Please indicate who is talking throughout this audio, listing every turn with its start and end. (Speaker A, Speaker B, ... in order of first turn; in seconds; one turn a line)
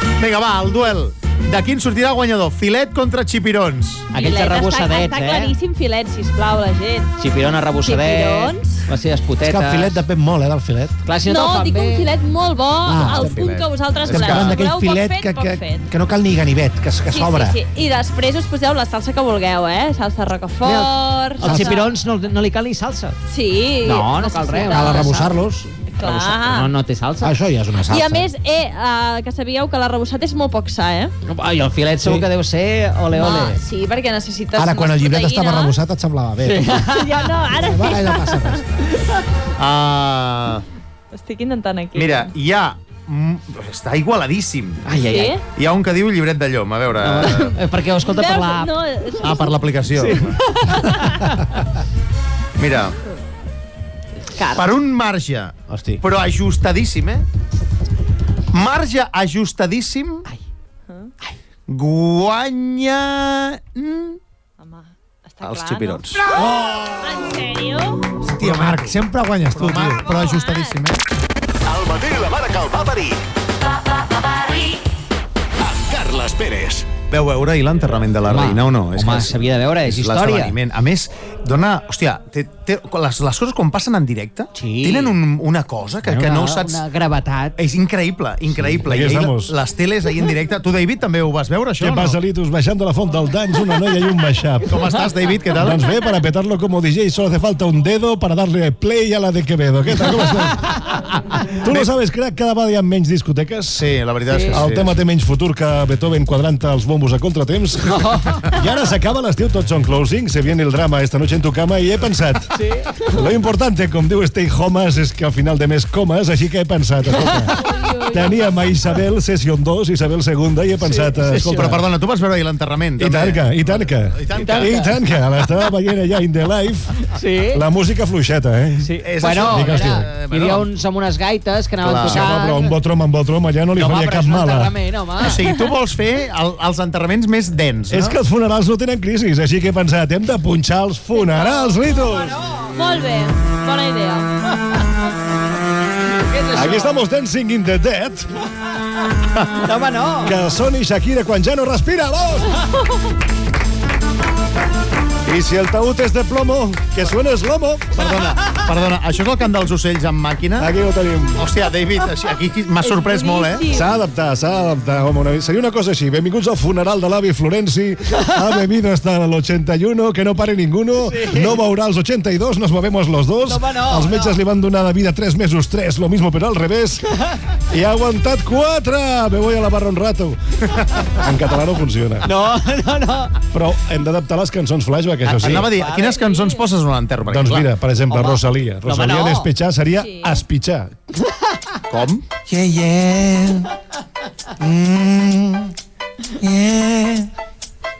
Speaker A: 0.2-4.1
Speaker B: 4.1-5.5
Speaker C: 4.1-7.1
Speaker B: 7.2-10.0
Speaker C: 7.8-8.8
Speaker D: 9.4-11.0
Speaker B: 11.1-12.1
Speaker C: 11.3-15.9
Speaker D: 12.9-13.5
Speaker A: 13.0-14.6
Speaker D: 14.1-17.6
Speaker C: 17.1-21.9
Speaker B: 21.4-23.2
Speaker D: 21.4-21.7
Speaker C: 23.3-25.2
Speaker B: 23.9-25.4
Speaker D: 24.7-25.7
Speaker C: 25.9-26.7
Speaker B: 26.0-27.4
Speaker D: 27.2-28.3
Speaker C: 27.9-31.1
Speaker B: 31.3-33.6
Speaker D: 32.0-32.3
Speaker C: 33.1-35.8
Speaker D: 34.5-36.8
Speaker B: 36.4-37.2
Speaker C: 36.8-38.6
Speaker D: 37.5-38.6
Speaker A: 39.6-40.6
Speaker C: 41.1-42.3
Speaker A: 42.0-44.8
Speaker B: 44.9-45.4
Speaker C: 45.1-45.4
Speaker A: 45.6-47.5
Speaker B: 47.0-48.7
Speaker C: 48.1-49.6
Speaker A: 49.2-50.4
Speaker B: 50.0-51.1
Speaker A: 52.6-53.0
Speaker A: 54.5-57.2
Speaker D: 55.7-56.0
Speaker A: 58.5-60.3
Speaker A: 61.7-64.2
Speaker C: 64.6-68.1
Speaker A: 65.4-66.2
Speaker A: 68.4-71.0
Speaker D: 68.4-68.9
Speaker B: 69.6-69.9
Speaker C: 69.9-70.8
Speaker E: 71.7-73.2
Speaker E: 75.6-76.9
Speaker A: 77.1-86.8
Speaker B: 78.3-80.5
Speaker B: 84.5-85.2
Speaker B: 86.1-87.6
Speaker A: 87.6-92.2
Speaker F: 88.8-89.5
Speaker F: 91.8-94.8
Speaker A: 94.6-95.8
Speaker F: 95.6-100.8
Speaker F: 101.6-103.8
Speaker A: 101.6-101.9
Speaker A: 103.7-105.0
Speaker B: 104.3-104.6
Speaker F: 104.5-108.0
Speaker B: 107.9-108.5
Speaker F: 108.5-112.5
Speaker B: 112.5-113.0
Speaker F: 113.1-117.6
Speaker C: 117.6-118.6
Speaker F: 118.1-121.8
Speaker B: 120.8-121.8
Speaker A: 121.5-124.9
Speaker F: 123.0-126.9
Speaker B: 124.4-124.9
Speaker B: 127.2-127.6
Speaker F: 127.5-130.1
Speaker B: 128.8-132.7
Speaker A: 129.0-130.7
Speaker A: 131.8-132.3
Speaker F: 132.1-134.7
Speaker B: 133.8-135.4
Speaker A: 135.2-138.2
Speaker F: 137.9-142.3
Speaker C: 141.2-141.9
Speaker B: 142.0-142.7
Speaker C: 142.7-144.3
Speaker B: 146.1-147.0
Speaker F: 146.5-148.3
Speaker B: 149.6-150.3
Speaker F: 150.2-152.5
Speaker F: 155.3-157.9
Speaker A: 157.9-160.7
Speaker F: 160.6-161.5
Speaker A: 161.4-163.7
Speaker C: 162.8-163.9
Speaker F: 163.7-177.1
Speaker B: 171.0-171.6
Speaker B: 173.4-174.4
Speaker F: 177.7-180.4
Speaker F: 181.2-182.3
Speaker B: 182.2-183.3
Speaker F: 183.5-185.7
Speaker A: 185.3-187.7
Speaker B: 185.4-186.2
Speaker C: 186.1-186.6
Speaker F: 187.3-190.9
Speaker B: 188.1-189.5
Speaker C: 190.0-190.4
Speaker A: 191.9-192.3
Speaker G: 192.5-193.7
Speaker G: 194.6-195.7
Speaker G: 196.4-197.3